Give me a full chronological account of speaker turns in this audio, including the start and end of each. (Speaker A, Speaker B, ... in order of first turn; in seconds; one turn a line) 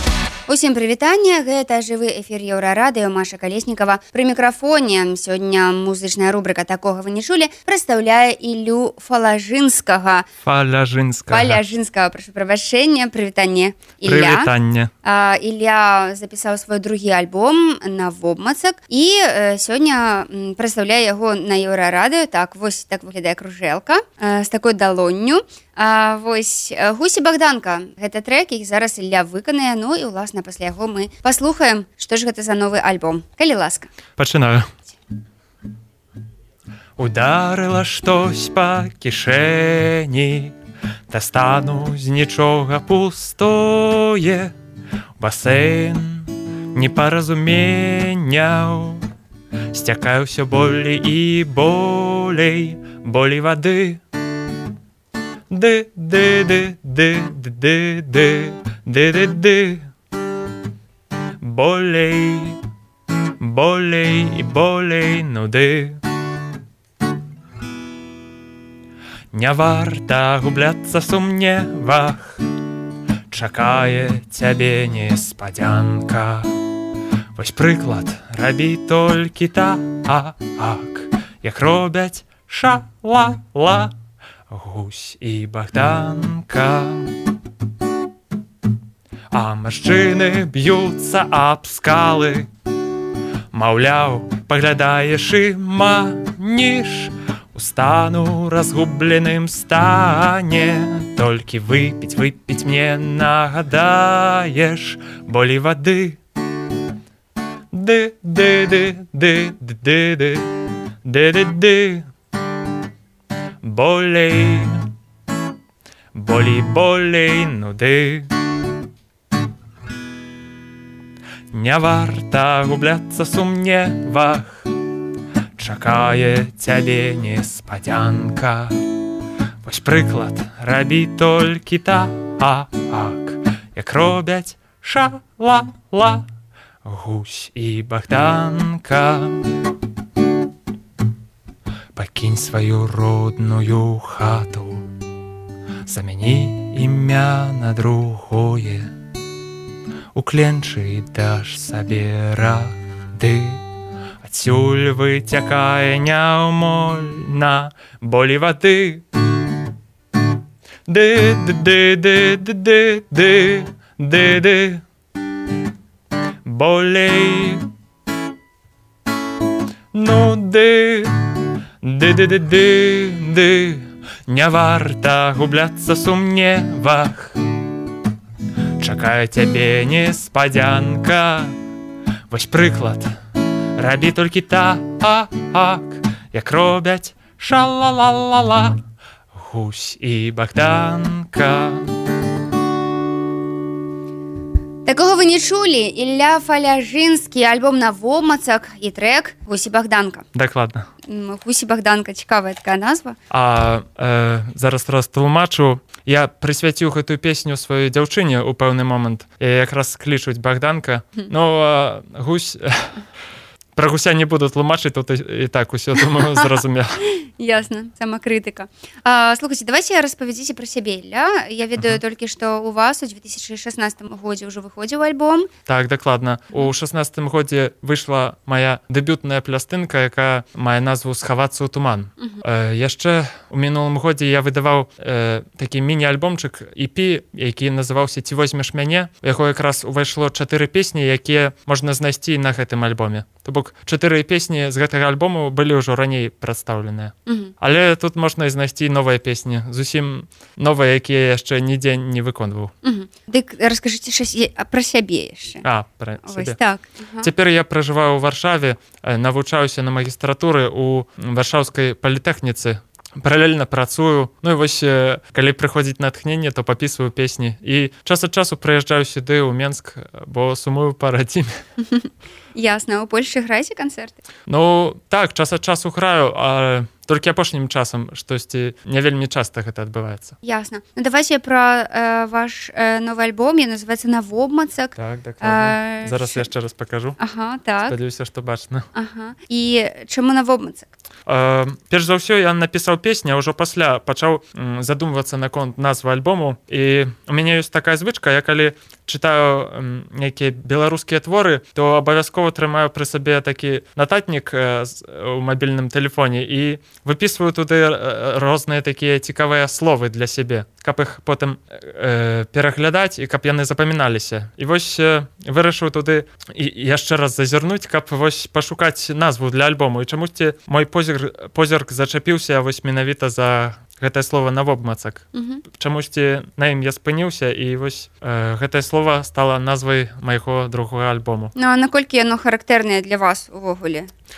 Speaker A: 0.5-10.3
Speaker B: 10.4-11.6
Speaker A: 11.3-14.5
Speaker B: 14.1-14.9
Speaker A: 15.0-33.9
Speaker B: 34.2-34.7
Speaker B: 37.0-40.5
Speaker B: 41.1-44.5
Speaker B: 45.2-49.0
Speaker B: 49.7-54.0
Speaker B: 55.5-59.9
Speaker B: 61.4-62.6
Speaker B: 63.4-66.0
Speaker B: 69.3-72.4
Speaker B: 73.3-76.6
Speaker B: 77.4-84.0
Speaker B: 84.5-87.2
Speaker B: 89.3-92.5
Speaker B: 93.5-106.2
Speaker B: 107.7-110.5
Speaker B: 111.0-112.1
Speaker B: 113.6-114.9
Speaker B: 116.1-118.3
Speaker B: 121.5-124.7
Speaker B: 125.6-128.8
Speaker B: 129.6-136.3
Speaker B: 136.8-139.6
Speaker B: 141.9-144.9
Speaker B: 145.9-148.9
Speaker B: 150.1-153.6
Speaker B: 154.2-159.1
Speaker B: 160.9-164.8
Speaker B: 166.4-167.7
Speaker B: 169.9-171.3
Speaker B: 171.8-177.4
Speaker B: 178.8-181.5
Speaker B: 182.3-183.1
Speaker B: 183.8-188.8
Speaker B: 189.3-191.9
Speaker A: 194.8-200.2
Speaker B: 200.3-200.9
Speaker A: 201.1-203.2
Speaker B: 203.3-213.0
Speaker B: 213.8-217.0
Speaker A: 217.0-225.5
Speaker B: 225.7-252.7
Speaker A: 247.3-247.5
Speaker A: 252.8-255.7
Speaker B: 255.6-256.6
Speaker A: 256.2-257.3
Speaker B: 257.2-271.5
Speaker A: 271.9-274.2
Speaker B: 274.5-280.3
Speaker A: 280.4-286.5
Speaker B: 285.0-287.2
Speaker A: 287.2-288.0
Speaker B: 287.9-288.9
Speaker A: 288.9-290.9
Speaker B: 291.3-331.5
Speaker A: 325.3-325.6
Speaker A: 331.6-334.1